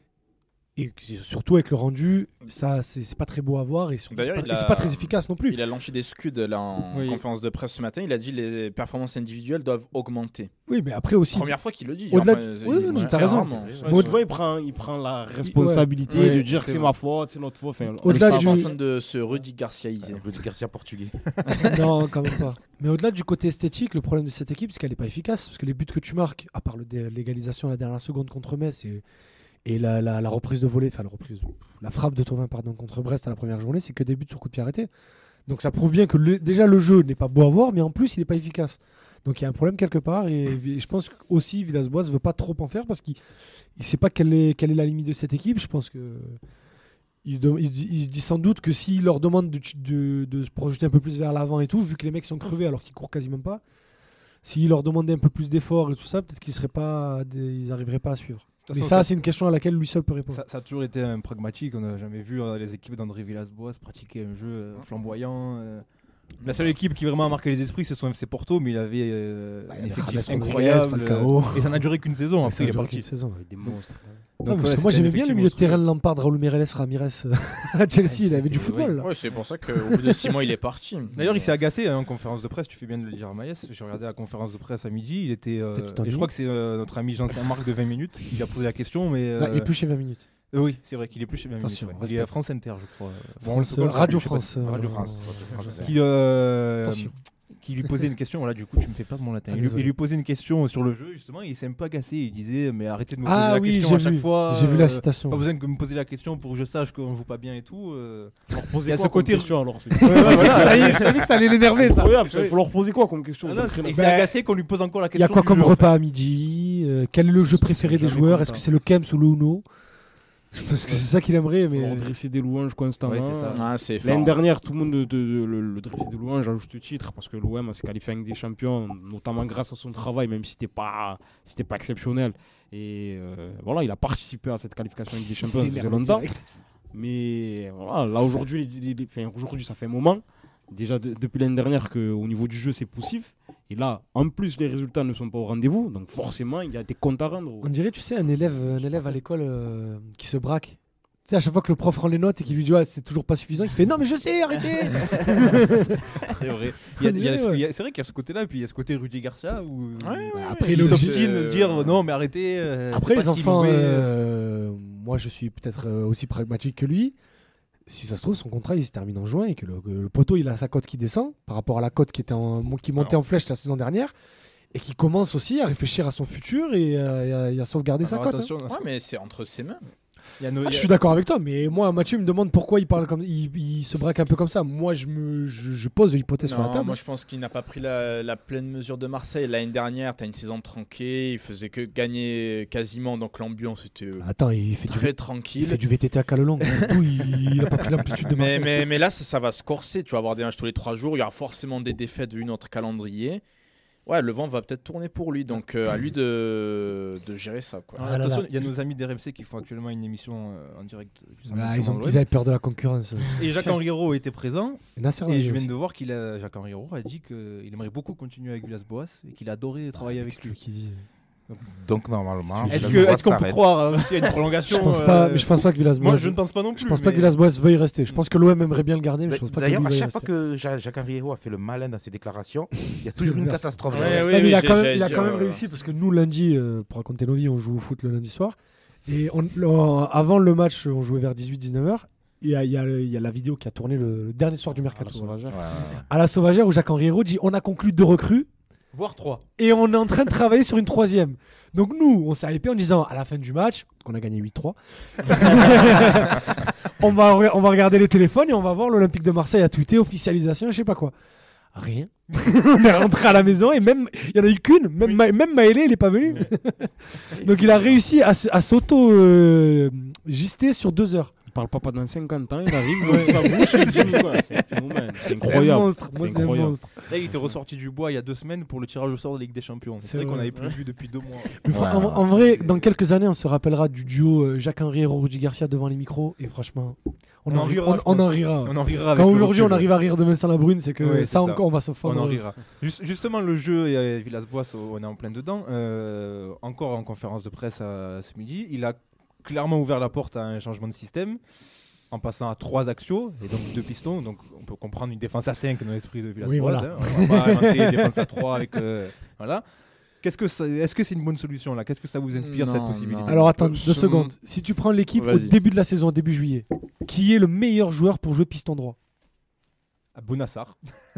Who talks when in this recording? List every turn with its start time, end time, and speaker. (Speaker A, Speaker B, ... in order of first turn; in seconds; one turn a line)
Speaker A: 0.8-5.6
Speaker B: 4.1-10.5
Speaker C: 6.9-7.2
Speaker A: 10.7-11.6
Speaker B: 11.3-14.0
Speaker A: 12.1-14.2
Speaker D: 12.9-14.1
Speaker E: 13.8-18.8
Speaker A: 15.4-16.4
Speaker B: 16.1-16.4
Speaker C: 16.1-16.9
Speaker A: 18.0-18.7
Speaker B: 18.1-20.2
Speaker D: 20.0-21.3
Speaker B: 21.5-21.8
Speaker A: 21.6-29.0
Speaker A: 29.6-34.9
Speaker A: 35.5-43.2
Speaker A: 43.8-46.4
Speaker A: 47.2-53.6
Speaker A: 54.4-60.4
Speaker C: 58.6-59.1
Speaker C: 60.3-65.8
Speaker C: 66.4-73.0
Speaker B: 66.4-66.7
Speaker A: 69.7-71.9
Speaker A: 72.4-73.7
Speaker E: 73.4-74.3
Speaker C: 74.4-75.8
Speaker A: 74.4-79.1
Speaker C: 78.1-79.0
Speaker B: 79.0-81.5
Speaker A: 79.7-80.4
Speaker C: 81.1-89.7
Speaker A: 85.8-86.3
Speaker A: 89.4-90.3
Speaker C: 90.5-95.0
Speaker A: 91.6-92.3
Speaker A: 93.4-95.9
Speaker D: 94.6-96.0
Speaker C: 95.6-111.3
Speaker A: 96.8-97.1
Speaker A: 99.5-99.9
Speaker A: 103.2-105.4
Speaker E: 108.5-114.1
Speaker A: 110.0-112.2
Speaker C: 112.3-112.6
Speaker C: 113.4-116.0
Speaker A: 113.9-114.3
Speaker A: 115.2-119.6
Speaker E: 117.3-118.7
Speaker A: 120.5-122.1
Speaker E: 121.7-136.3
Speaker C: 123.0-123.7
Speaker B: 123.5-124.4
Speaker A: 135.4-136.5
Speaker E: 136.9-147.7
Speaker A: 147.6-156.3
Speaker C: 154.9-164.1
Speaker A: 157.0-157.6
Speaker B: 160.0-162.0
Speaker A: 160.3-161.2
Speaker A: 162.9-167.2
Speaker A: 167.9-174.1
Speaker A: 174.7-178.5
Speaker C: 178.0-178.9
Speaker B: 178.7-179.8
Speaker C: 180.4-180.9
Speaker A: 180.6-187.0
Speaker B: 186.4-194.3
Speaker A: 194.2-198.9
Speaker B: 194.9-195.8
Speaker B: 196.6-197.6
Speaker B: 198.2-203.4
Speaker B: 204.1-208.0
Speaker C: 208.0-212.2
Speaker A: 208.0-208.7
Speaker A: 211.5-213.5
Speaker C: 213.3-220.6
Speaker A: 215.0-215.7
Speaker A: 220.0-221.1
Speaker D: 221.7-223.9
Speaker A: 222.6-223.2
Speaker C: 222.7-227.4
Speaker A: 224.7-230.3
Speaker D: 229.3-234.3
Speaker A: 233.1-245.4
Speaker B: 233.9-235.6
Speaker E: 244.9-245.9
Speaker D: 245.5-246.1
Speaker A: 246.1-248.5
Speaker C: 248.9-249.4
Speaker A: 249.6-261.1
Speaker A: 261.7-271.3
Speaker E: 271.5-277.5
Speaker A: 273.0-274.4
Speaker A: 275.2-277.1
Speaker C: 277.1-281.6
Speaker A: 280.0-280.7
Speaker A: 281.6-292.4
Speaker D: 281.7-282.2
Speaker C: 282.2-282.9
Speaker C: 287.5-289.9
Speaker C: 291.0-301.4
Speaker C: 302.1-309.6
Speaker A: 306.4-308.7
Speaker C: 310.2-313.5
Speaker B: 312.3-314.3
Speaker A: 313.3-319.0
Speaker B: 315.1-315.5
Speaker C: 320.1-320.8